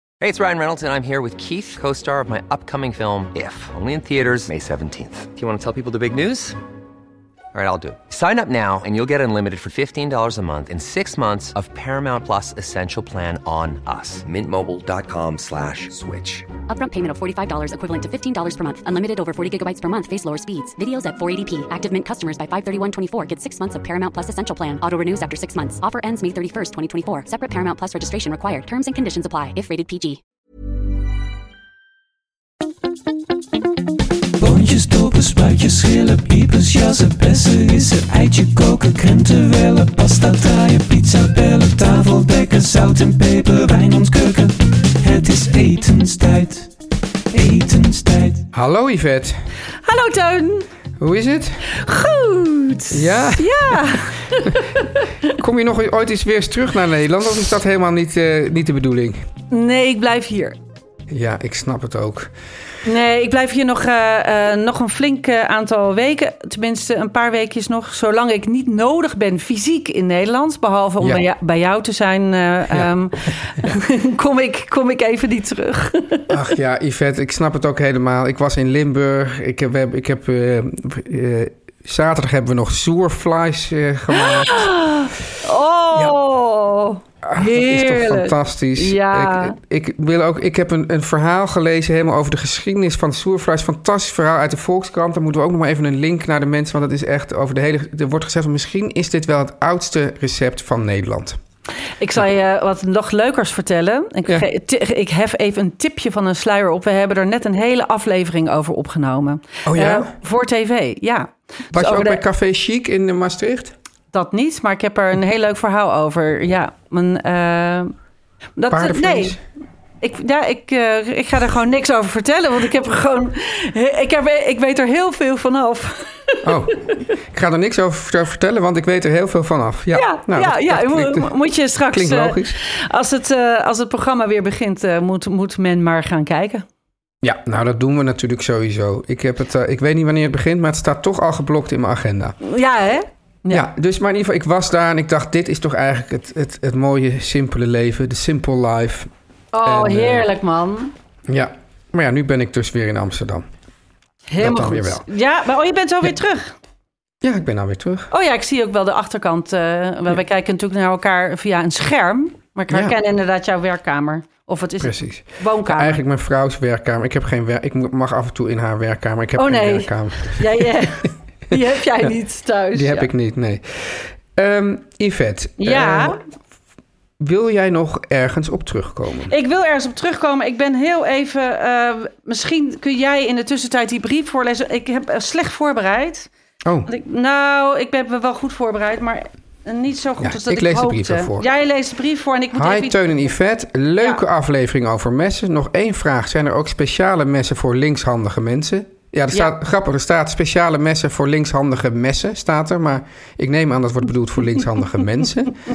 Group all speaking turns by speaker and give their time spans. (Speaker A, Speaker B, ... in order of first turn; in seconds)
Speaker A: 0.2-6.6, 7.5-16.5
Speaker B: 16.7-30.2
Speaker C: 34.4-46.7, 47.3-48.4
Speaker D: 48.5-49.4, 51.0-51.6, 52.9-53.8, 55.2-59.2, 61.1-62.3, 76.3-84.7, 87.2-101.4, 109.7-110.1, 111.7-113.7, 118.7-119.4, 126.4-131.3, 131.9-132.6, 137.2-142.4, 143.5-149.1, 149.6-150.3, 151.3-153.4, 154.4-155.0, 157.2-158.1, 164.8-170.9, 172.7-176.2, 177.2-179.3, 190.2-191.5, 192.6-205.6
Speaker E: 49.8-50.7, 51.7-55.3, 59.5-60.6, 62.8-76.3, 84.1-89.5, 102.0-112.2, 114.1-117.9, 118.6-119.4, 120.0-126.5, 129.9-136.6, 142.4-143.7, 149.5-150.9, 154.3-156.5, 158.1-166.0, 169.3-173.1, 175.6-176.2, 179.3-186.3, 186.8-193.0